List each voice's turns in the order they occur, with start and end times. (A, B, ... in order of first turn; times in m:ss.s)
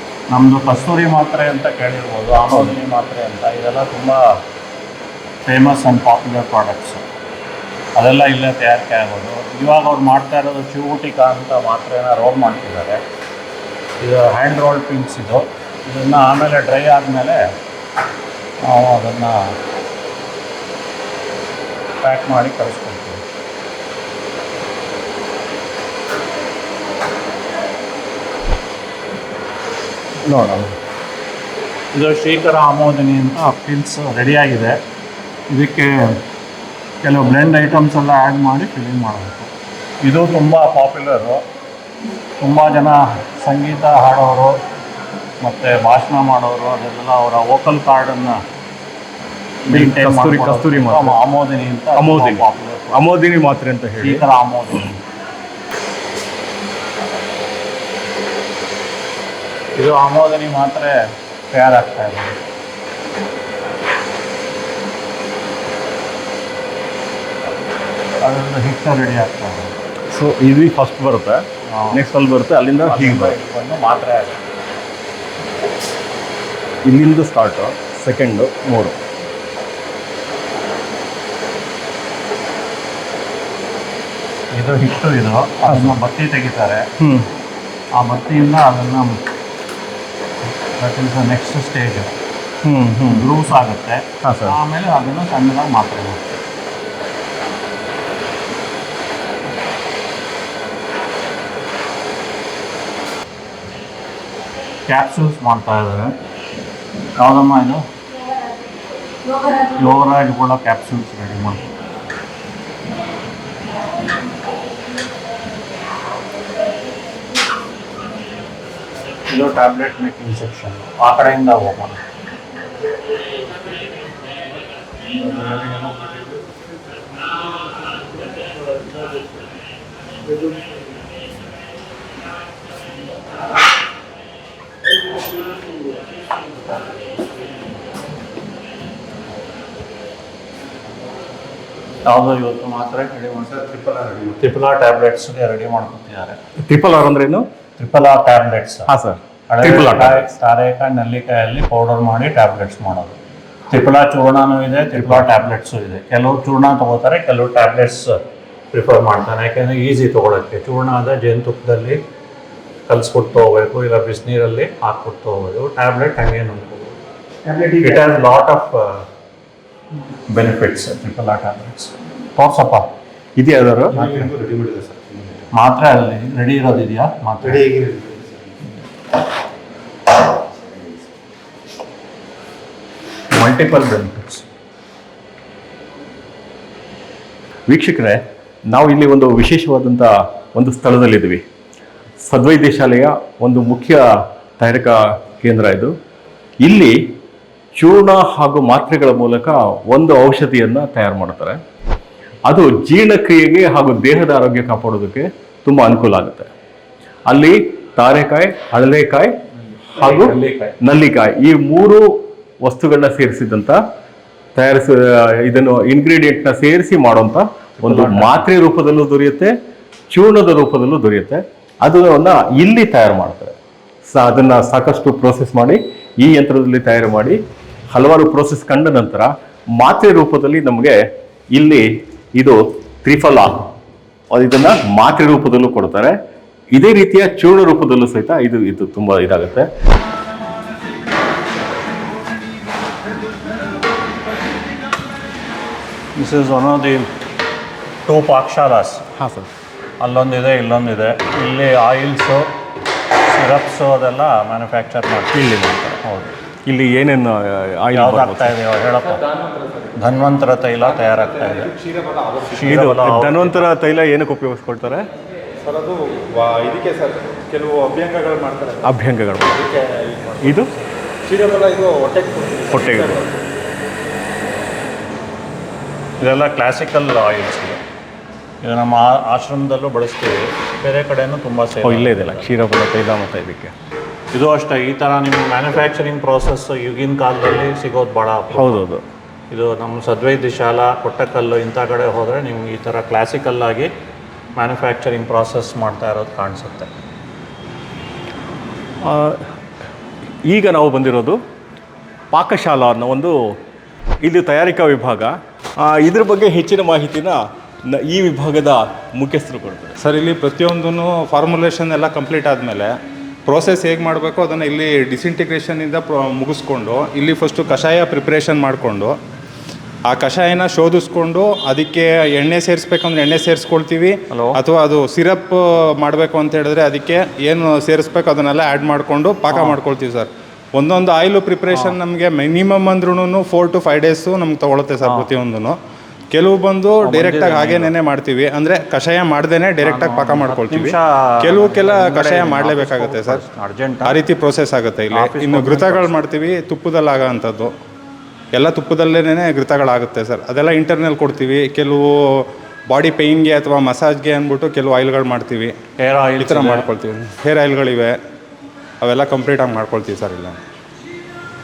0:00.3-0:04.4 A
0:05.5-0:07.0 A
0:08.0-0:13.0 A
0:14.0-0:17.5 A
0:18.6-0:19.5 A
0:22.0-0:23.2 A
0:30.2-0:30.7 B
0:31.9-0:34.8 A
0:35.5-0:36.2 A
0:37.0-0:39.5 A
0:40.0-0:41.4 A
0:42.4-0:44.6 A
0:45.4-0:48.4 A
0:49.7-0:53.0 A
0:49.7-0:51.2 B
0:52.0-0:54.3 B
0:54.0-0:55.0 A
0:59.8-1:01.0 A
1:01.5-1:02.4 A
1:08.2-1:09.7 A
1:10.1-1:13.4 B
1:11.7-1:12.0 A
1:12.8-1:14.4 A
1:16.8-1:19.0 B
1:24.5-1:26.9 A
1:25.7-1:26.0 B
1:27.0-1:27.3 B
1:28.0-1:29.2 A
1:30.8-1:32.1 A
1:32.6-1:33.3 B
1:33.1-1:36.3 A
1:34.2-1:34.6 B
1:44.9-1:46.2 A
1:47.2-1:47.9 A
1:49.4-1:51.7 A
1:59.3-2:02.0 A
2:05.1-2:06.4 A
2:22.1-2:26.4 A
2:26.7-2:27.5 B
2:27.8-2:28.9 A
2:28.9-2:30.3 B
2:29.5-2:33.2 A
2:33.7-2:38.2 A
2:35.0-2:35.3 B
2:38.7-2:42.0 A
2:42.9-2:47.0 A
2:47.5-2:48.0 B
2:47.7-2:49.1 A
2:50.3-2:52.9 A
2:53.4-2:55.4 B
2:53.9-2:54.3 A
2:55.5-2:57.7 A
2:57.6-2:58.3 B
3:03.3-3:04.5 A
3:07.7-3:11.4 B
3:12.2-3:14.1 B
3:14.6-3:15.9 B
3:16.6-3:16.9 B
3:17.8-3:21.6 B
3:22.5-3:26.5 B
3:27.3-3:29.3 B
3:29.8-3:30.8 A
3:30.0-3:33.8 B
3:34.6-3:39.5 B
3:37.8-3:38.4 A
3:40.1-3:43.6 B
3:44.1-3:47.4 B
3:47.9-3:51.0 B
3:51.5-3:53.7 B
3:54.3-3:56.2 B
3:56.7-3:59.7 B
4:06.2-4:07.1 A
4:08.1-4:09.0 A
4:09.2-4:09.5 B
4:10.0-4:12.5 A
4:13.2-4:16.3 A
4:15.3-4:15.9 B
4:16.7-4:18.5 B
4:17.9-4:19.2 A
4:19.2-4:20.0 C
4:20.0-4:21.7 A
4:20.8-4:23.1 C
4:22.5-4:23.7 A
4:22.6-4:25.1 B
4:25.6-4:29.0 C
4:28.8-4:29.6 B
4:29.5-4:30.7 C
4:30.4-4:30.7 B
4:31.2-4:33.3 C
4:32.7-4:33.2 B
4:36.2-4:37.8 A
4:38.6-4:42.5 A
4:41.8-4:43.7 B
4:44.3-4:48.8 A
4:48.5-4:49.0 B
4:49.5-4:53.9 A
4:54.6-4:56.9 A
4:59.0-4:59.4 B
5:00.5-5:01.4 B
5:02.3-5:03.4 B
5:04.2-5:10.0 B
5:10.0-5:13.0 C
5:13.5-5:19.2 C
5:20.1-5:35.8 C
5:24.3-5:24.6 A
5:29.5-5:29.8 A
5:31.7-5:32.0 A
5:35.0-5:35.3 A
5:36.3-5:43.4 C
5:37.0-5:37.9 A
5:39.8-5:44.2 A
5:44.0-5:47.7 C
5:45.1-5:46.2 A
5:48.5-5:55.8 C
5:56.0-5:56.9 A
5:56.4-5:58.2 C
5:59.0-6:00.6 C